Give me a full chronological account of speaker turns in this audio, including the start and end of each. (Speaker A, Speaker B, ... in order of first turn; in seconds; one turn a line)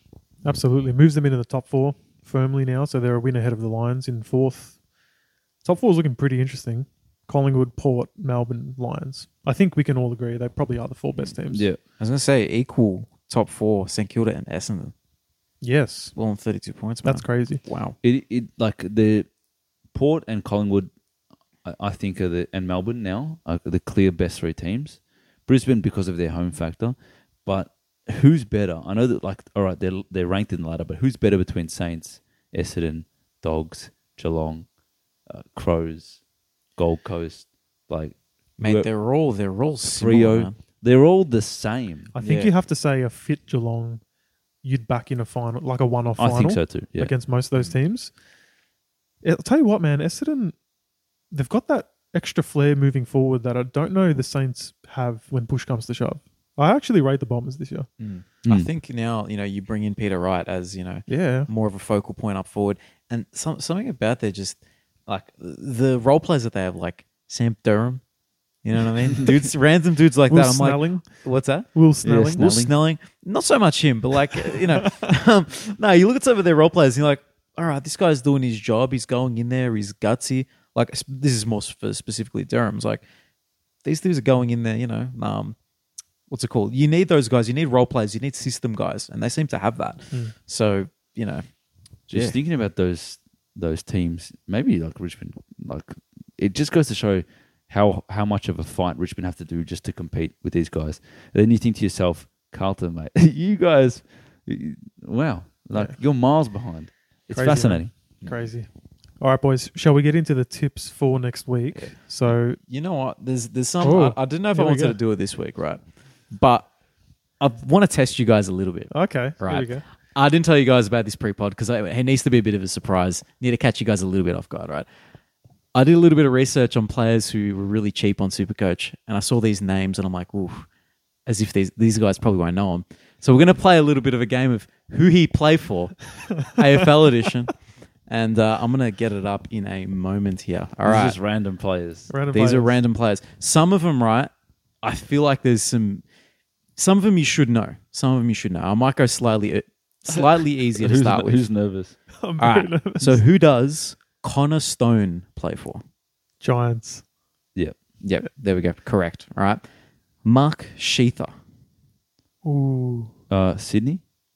Speaker A: 0.4-4.8
Speaker A: 5.6-11.7
Speaker B: 11.5-11.8
Speaker C: 12.0-14.9
Speaker A: 15.6-16.1
Speaker C: 16.1-18.0
Speaker A: 17.0-17.6
Speaker B: 18.0-19.3
Speaker B: 19.9-20.9
Speaker B: 21.6-34.7
Speaker B: 35.3-36.2
Speaker B: 36.8-38.9
Speaker C: 38.6-40.5
Speaker B: 39.8-42.1
Speaker A: 42.1-44.0
Speaker C: 42.2-42.5
Speaker A: 44.6-48.1
Speaker B: 46.2-47.1
Speaker A: 49.2-50.6
Speaker A: 51.3-57.9
Speaker C: 58.0-68.0
Speaker A: 61.1-61.5
Speaker C: 68.6-71.8
Speaker A: 70.3-71.1
Speaker A: 71.7-72.6
Speaker B: 72.0-72.7
Speaker C: 72.3-83.0
Speaker C: 83.8-85.6
Speaker C: 86.3-91.4
Speaker C: 92.1-92.4
Speaker B: 92.1-107.9
Speaker A: 107.3-108.7
Speaker C: 108.2-108.5
Speaker A: 109.2-112.6
Speaker C: 112.6-116.7
Speaker A: 113.8-115.0
Speaker C: 117.4-124.9
Speaker A: 118.9-119.8
Speaker C: 125.7-130.7
Speaker C: 131.3-137.5
Speaker C: 138.1-141.2
Speaker B: 140.8-142.1
Speaker A: 142.1-142.8
Speaker C: 142.3-144.3
Speaker C: 144.8-146.1
Speaker C: 146.8-151.5
Speaker B: 150.8-152.0
Speaker A: 152.1-153.2
Speaker C: 152.4-155.8
Speaker A: 156.4-157.0
Speaker C: 158.0-159.6
Speaker C: 160.2-161.3
Speaker A: 162.4-163.1
Speaker B: 163.3-164.0